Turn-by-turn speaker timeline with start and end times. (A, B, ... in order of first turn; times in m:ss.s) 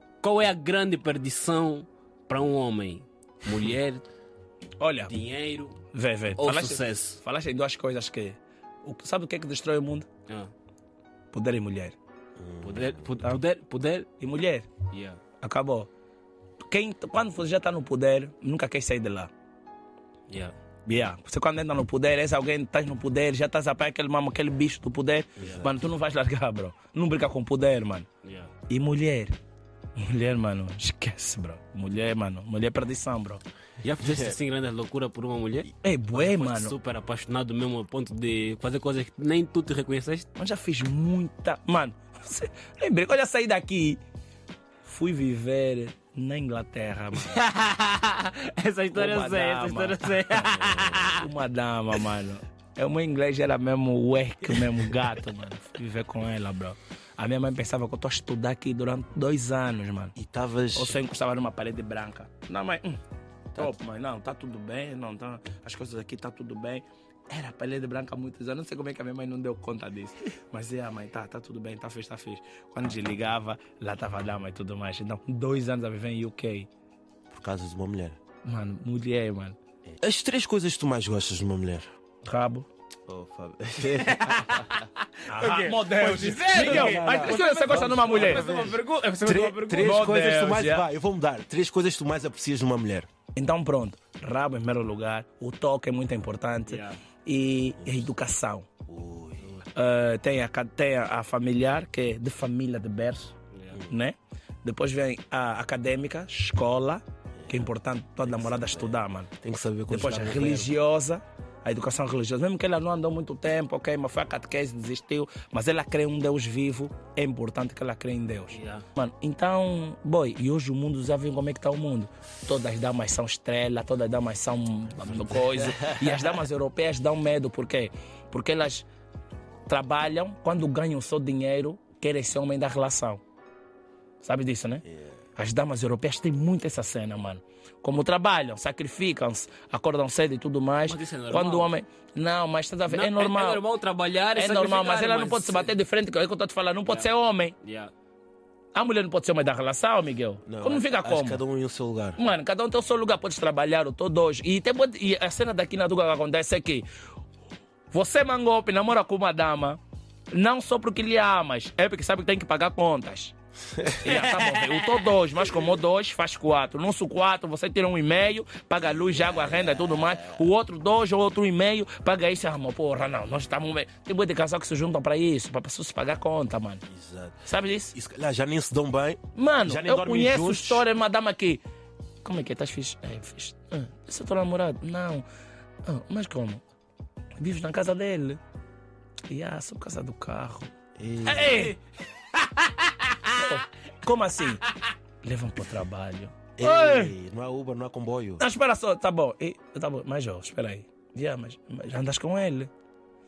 0:00.2-0:04.0 A
0:04.8-0:05.1 B
0:05.1-0:05.8 A
0:05.9-0:10.1 B
0:06.4-0:07.2 A
0:11.3-0:12.0 B
0:12.4-0:13.3 C
0:12.6-0:14.1 A
0:14.2-0:14.7 B
0:14.9-0:15.2 A
0:15.4-0:15.9 B
0:16.6-0:19.3 B
0:20.3-0:20.5 A
0:20.8-0:28.0 B
0:25.4-0:25.7 C
0:28.2-0:28.5 A
0:28.7-0:29.3 B
0:30.0-0:33.4 B
0:33.8-0:40.3 A
0:35.8-0:36.7 B
0:40.4-0:44.0 B
0:44.8-0:47.4 B
0:47.2-0:51.3 A
0:48.9-0:50.3 B
0:50.6-0:51.1 C
0:51.0-1:00.2 B
1:00.2-1:01.0 C
1:00.7-1:03.0 B
1:03.5-1:16.7 B
1:17.3-1:18.2 C
1:18.4-1:19.6 B
1:19.9-1:21.9 C
1:22.2-1:22.7 B
1:23.1-1:24.6 C
1:24.0-1:30.1 A
1:25.2-1:28.4 B
1:26.6-1:33.1 C
1:29.8-1:30.9 B
1:33.4-1:38.7 B
1:36.7-1:37.0 A
1:38.8-1:39.5 C
1:39.7-1:43.3 B
1:43.9-1:49.3 B
1:47.4-1:47.7 C
1:48.3-1:50.8 C
1:49.9-2:08.9 B
1:58.5-1:58.8 A
2:09.7-2:13.2 B
2:14.2-2:14.8 B
2:15.4-2:23.6 B
2:20.9-2:21.7 A
2:22.9-2:25.7 A
2:24.3-2:27.6 B
2:27.6-2:27.9 A
2:28.7-2:31.4 B
2:30.4-2:32.2 C
2:32.2-2:36.8 B
2:37.9-2:39.8 B
2:40.3-2:56.8 B
2:56.9-3:00.8 C
2:57.4-2:57.9 B
2:59.4-3:01.6 B
3:02.2-3:05.2 B
3:05.8-3:06.6 B
3:07.4-3:08.4 B
3:09.3-3:10.7 B
3:11.0-3:11.7 C
3:11.2-3:11.8 B
3:13.3-3:14.6 B
3:15.2-3:17.1 B
3:16.6-3:18.4 C
3:18.4-3:22.7 B